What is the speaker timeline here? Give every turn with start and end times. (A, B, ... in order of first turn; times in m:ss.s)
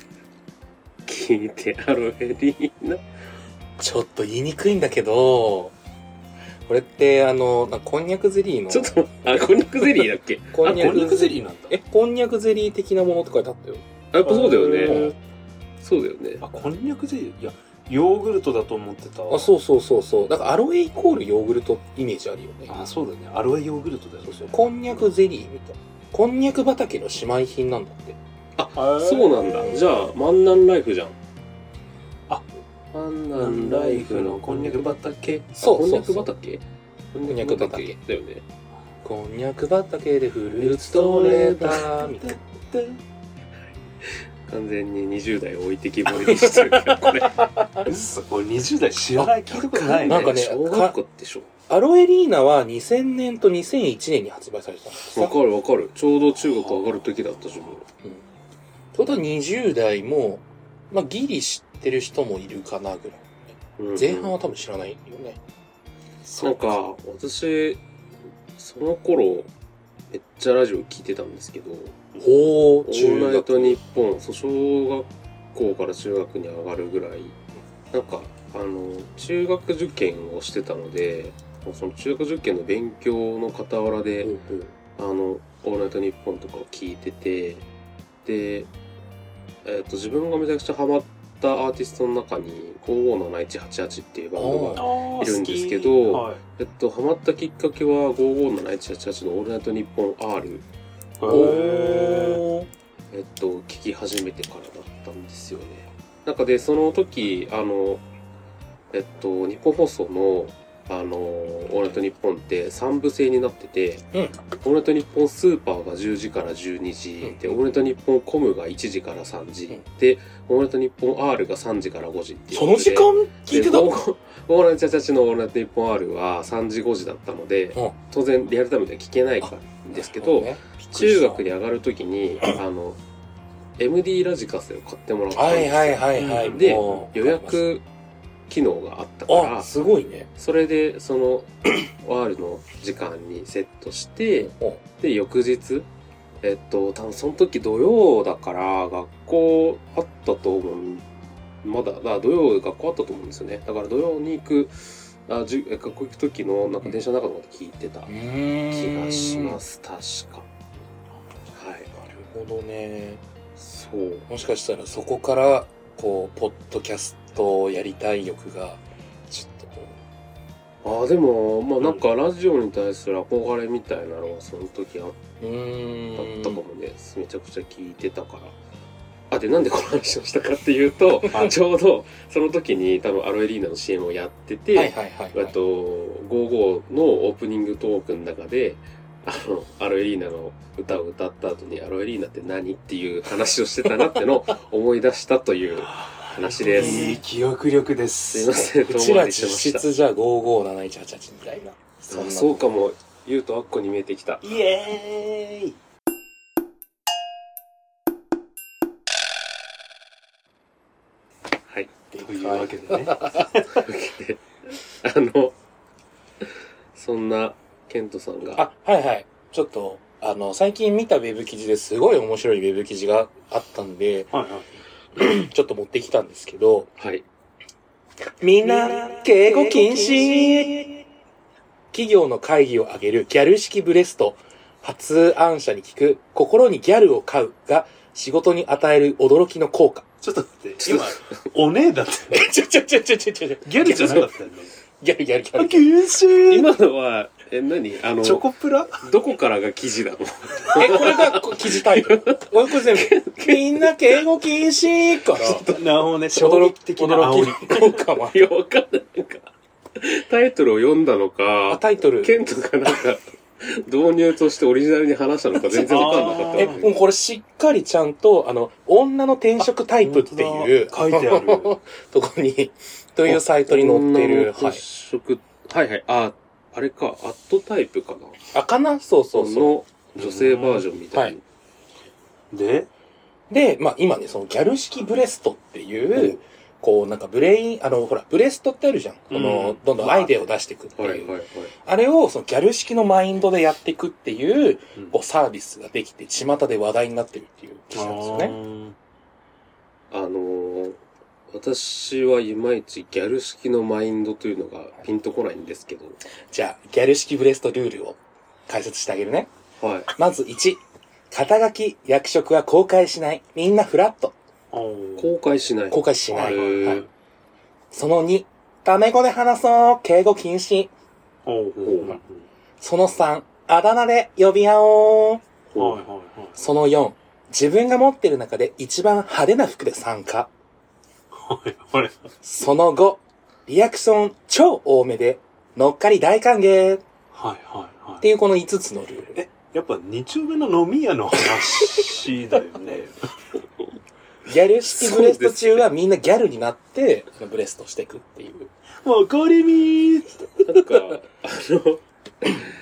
0:01.1-0:03.0 A
0:03.8-0:05.7 B
0:06.7-0:09.0 B
0:08.7-0:11.3 A
0:10.5-0:13.8 B
0:10.6-0:11.8 C
0:14.1-0:15.1 A
0:14.2-0:15.1 C
0:14.8-0:15.2 B
0:15.8-0:16.4 A
0:16.4-0:19.5 C
0:19.3-0:22.7 B
0:22.7-0:24.7 C
0:24.3-0:28.2 B
0:28.6-0:31.1 A
0:28.7-0:29.8 C
0:32.9-0:38.4 A
0:33.4-0:35.2 C
0:35.6-0:36.3 B
0:37.2-0:38.0 B
0:39.0-0:42.4 B
0:40.5-0:42.9 A
0:44.5-0:47.4 A
0:46.0-0:47.9 B
0:47.8-0:50.4 C
0:49.2-0:51.5 A
0:50.0-0:51.0 B
0:51.7-0:55.4 B
0:55.1-0:57.8 A
0:58.9-1:05.4 B
1:03.8-1:04.3 A
1:06.2-1:06.8 C
1:06.4-1:07.8 A
1:08.6-1:09.5 A
1:10.1-1:12.1 A
1:12.2-1:13.8 B
1:12.8-1:17.4 A
1:17.9-1:24.4 A
1:24.2-1:24.6 B
1:24.9-1:27.6 A
1:28.2-1:28.7 A
1:29.6-1:40.6 A
1:34.4-1:34.8 B
1:34.8-1:36.4 C
1:41.2-1:42.4 C
1:41.3-1:42.7 B
1:41.3-1:41.6 A
1:43.1-1:48.0 A
1:48.9-1:54.0 A
1:54.1-1:54.4 B
1:54.6-2:13.0 A
1:57.2-1:57.6 B
2:02.5-2:04.0 B
2:09.4-2:11.4 B
2:13.8-2:17.8 A
2:15.3-2:17.6 B
2:16.1-2:17.0 C
2:18.5-2:19.7 A
2:19.3-2:20.3 B
2:20.4-2:25.9 A
2:24.4-2:24.8 B
2:26.4-2:31.0 A
2:31.6-2:38.1 A
2:38.1-2:39.6 B
2:38.7-2:40.5 A
2:41.5-2:41.9 A
2:41.9-2:43.2 B
2:43.6-2:44.2 A
2:44.3-2:49.9 B
2:50.8-2:55.2 A
2:55.4-2:56.6 B
2:56.2-2:58.5 A
2:59.3-3:17.2 A
3:04.7-3:05.5 B
3:15.9-3:18.7 C
3:16.7-3:17.2 B
3:18.3-3:19.8 A
3:18.8-3:22.6 B
3:22.1-3:24.4 A
3:24.4-3:25.8 C
3:32.1-3:33.5 B
3:32.2-3:33.8 C
3:33.7-3:35.5 A
3:36.9-3:38.6 A
3:38.6-3:44.3 B
3:44.3-3:44.7 C
3:45.2-3:46.9 B
3:47.0-3:47.2 A
3:48.4-3:50.9 B
3:48.6-3:51.0 C
3:51.9-4:00.0 B
4:00.2-4:02.5 C
4:00.8-4:01.2 A
4:02.3-4:04.3 B
4:03.6-4:04.7 C
4:05.0-4:05.9 B
4:05.6-4:06.8 C
4:06.5-4:08.4 A
4:08.2-4:09.0 C
4:09.0-4:14.2 A
4:10.7-4:15.7 B
4:15.3-4:15.8 A
4:15.7-4:17.8 C
4:16.3-4:18.5 B
4:17.7-4:26.9 A
4:21.7-4:22.4 B
4:25.8-4:34.8 B
4:25.8-4:26.8 C
4:30.0-4:31.7 C
4:33.2-4:38.4 A
4:38.5-4:39.7 B
4:39.3-4:41.4 A
4:40.2-4:40.9 C
4:42.5-4:42.9 C
4:43.5-4:58.5 B
4:49.3-4:50.3 C
4:51.0-4:51.7 A
4:57.9-4:59.0 C
5:00.1-5:01.0 A
5:01.5-5:06.2 A
5:06.5-5:09.5 B
5:09.8-5:10.1 A
5:10.1-5:14.3 B
5:14.7-5:15.3 C
5:15.2-5:17.0 A
5:15.9-5:17.0 B
5:16.3-5:17.1 C
5:17.9-5:20.9 B
5:21.4-5:22.4 C
5:21.8-5:22.2 A
5:22.8-5:25.4 B
5:25.7-5:26.0 A
5:25.8-5:26.6 C
5:26.6-5:30.5 B
5:31.3-5:32.2 C
5:32.4-5:37.0 B
5:37.3-5:38.2 C
5:38.2-5:39.4 B
5:39.3-5:43.3 C
5:44.4-5:48.7 B
5:44.8-5:45.8 A
5:49.0-5:50.6 C
5:50.6-5:52.5 A